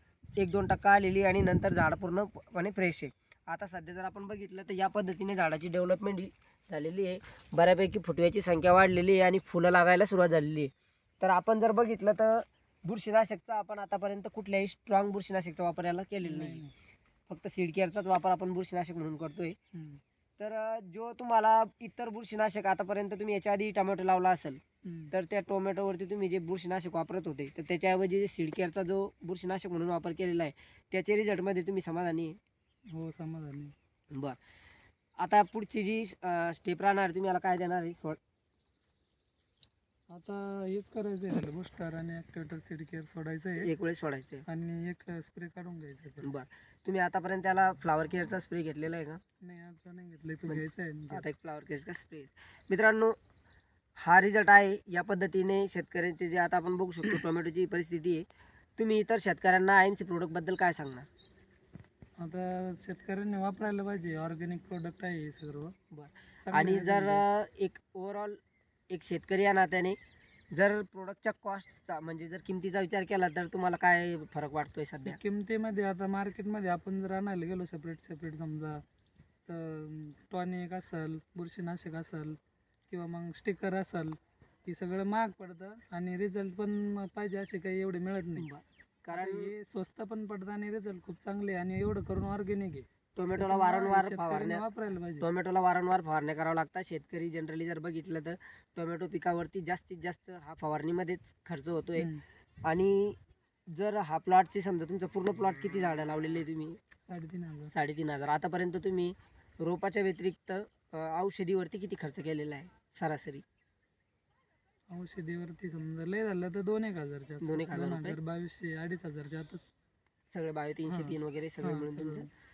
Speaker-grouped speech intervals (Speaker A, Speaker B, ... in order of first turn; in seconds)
Speaker A: 0.4-16.6, 17.3-19.6, 20.4-24.6, 25.1-32.4, 35.2-38.2, 43.6-44.5, 46.2-49.2, 50.5-53.1, 54.0-58.2, 58.8-61.1, 65.9-68.4, 68.9-70.0, 70.5-75.2, 88.4-89.5, 93.2-94.6, 95.2-102.1, 102.7-103.2, 103.7-106.8, 107.7-113.4, 117.4-118.2, 120.3-122.3
Speaker B: 16.2-16.7, 19.7-20.0, 24.9-25.1, 32.9-33.7, 40.1-43.7, 44.5-46.3, 49.4-51.3, 62.2-65.8, 66.4-67.2, 75.0-78.8, 79.5-88.5, 89.1-92.9, 93.4-95.3, 102.0-102.2, 107.1-107.7, 114.9-119.7, 120.9-122.3